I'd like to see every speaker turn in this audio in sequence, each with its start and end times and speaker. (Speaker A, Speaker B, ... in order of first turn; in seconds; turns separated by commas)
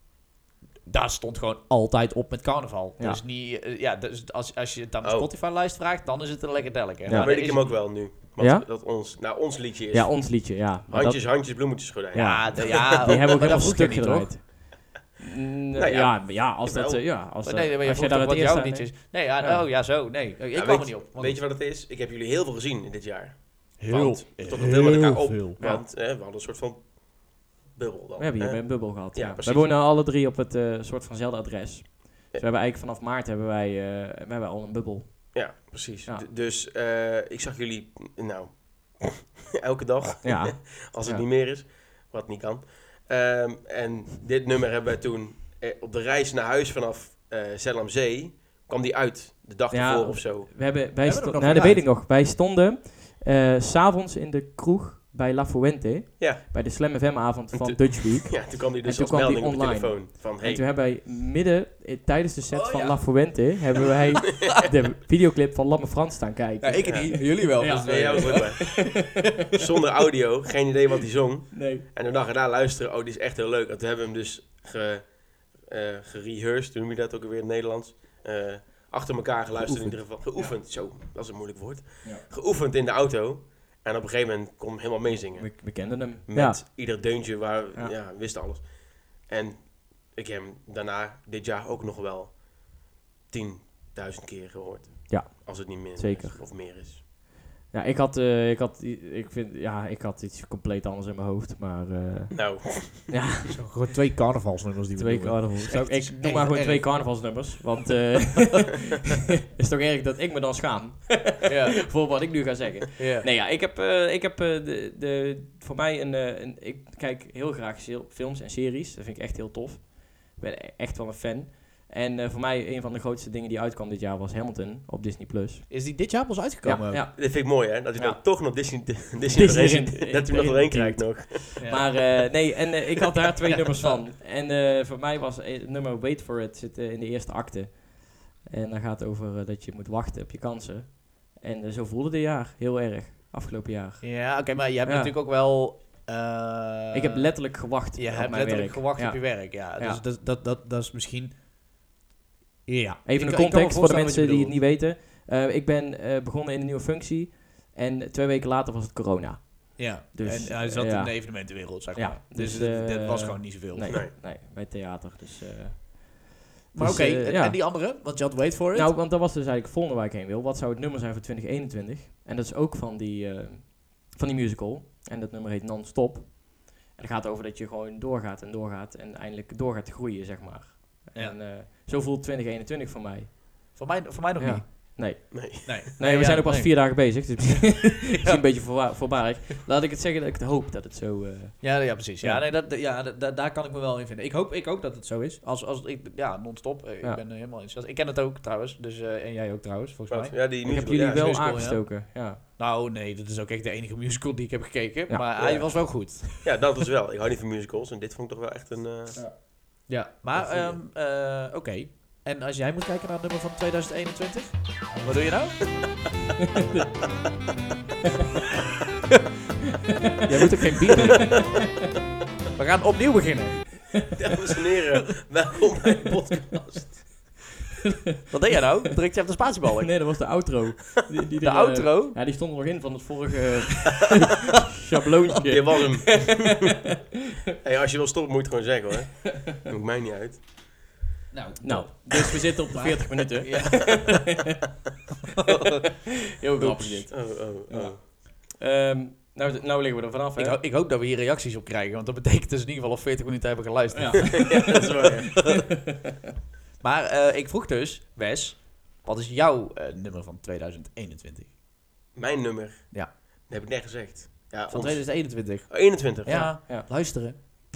Speaker A: 0.8-7.7, Speaker B: 5.0-5.3, Speaker C: 7.0-8.7, Speaker B: 7.1-13.3, Speaker C: 9.9-19.7, Speaker A: 12.2-14.4, Speaker B: 15.8-16.7, Speaker A: 16.6-21.4, Speaker B: 20.5-29.7, Speaker A: 23.8-25.6, Speaker C: 25.6-25.9, Speaker C: 28.2-36.2, Speaker B: 35.3-50.5, Speaker C: 40.2-41.2, Speaker C: 49.7-69.4, Speaker A: 51.0-51.9, Speaker B: 56.2-57.0, Speaker B: 57.5-60.6, Speaker A: 62.5-63.4, Speaker A: 66.6-69.6, Speaker B: 66.8-97.0, Speaker C: 71.5-71.8, Speaker A: 79.6-80.0, Speaker C: 85.1-86.6, Speaker C: 95.1-96.5, Speaker C: 97.7-103.6, Speaker B: 102.3-103.3, Speaker A: 103.5-107.4, Speaker C: 105.0-108.8, Speaker C: 109.5-128.8, Speaker A: 111.4-112.0, Speaker A: 113.0-113.3, Speaker A: 125.7-127.1, Speaker B: 127.2-131.9, Speaker C: 129.3-145.1, Speaker A: 131.6-131.9, Speaker A: 133.5-134.0, Speaker A: 144.0-147.3, Speaker C: 146.9-150.0, Speaker A: 147.9-151.4, Speaker A: 152.7-154.6, Speaker C: 153.0-168.2, Speaker A: 159.8-164.0, Speaker A: 166.7-168.9, Speaker C: 168.7-183.8, Speaker A: 181.1-181.4, Speaker A: 183.7-185.1, Speaker C: 184.4-192.4, Speaker B: 185.3-185.8, Speaker A: 185.6-187.4, Speaker A: 188.2-189.2, Speaker A: 191.6-206.6, Speaker B: 200.1-201.6, Speaker C: 200.6-202.4, Speaker B: 205.4-209.5, Speaker A: 209.9-216.0, Speaker B: 210.3-210.8, Speaker A: 220.2-221.5, Speaker C: 221.0-221.4, Speaker A: 222.6-223.9, Speaker B: 224.1-227.4, Speaker A: 228.3-230.0, Speaker C: 229.8-236.5, Speaker A: 231.4-232.2, Speaker B: 235.4-236.6, Speaker B: 237.6-240.5, Speaker A: 241.3-244.4, Speaker C: 241.6-244.4, Speaker C: 246.4-250.6, Speaker A: 246.6-247.1, Speaker B: 247.1-248.0, Speaker A: 250.3-254.8, Speaker C: 253.9-255.4, Speaker B: 254.5-255.5, Speaker A: 256.8-261.5, Speaker B: 262.1-266.6, Speaker A: 264.7-267.4, Speaker C: 266.3-266.9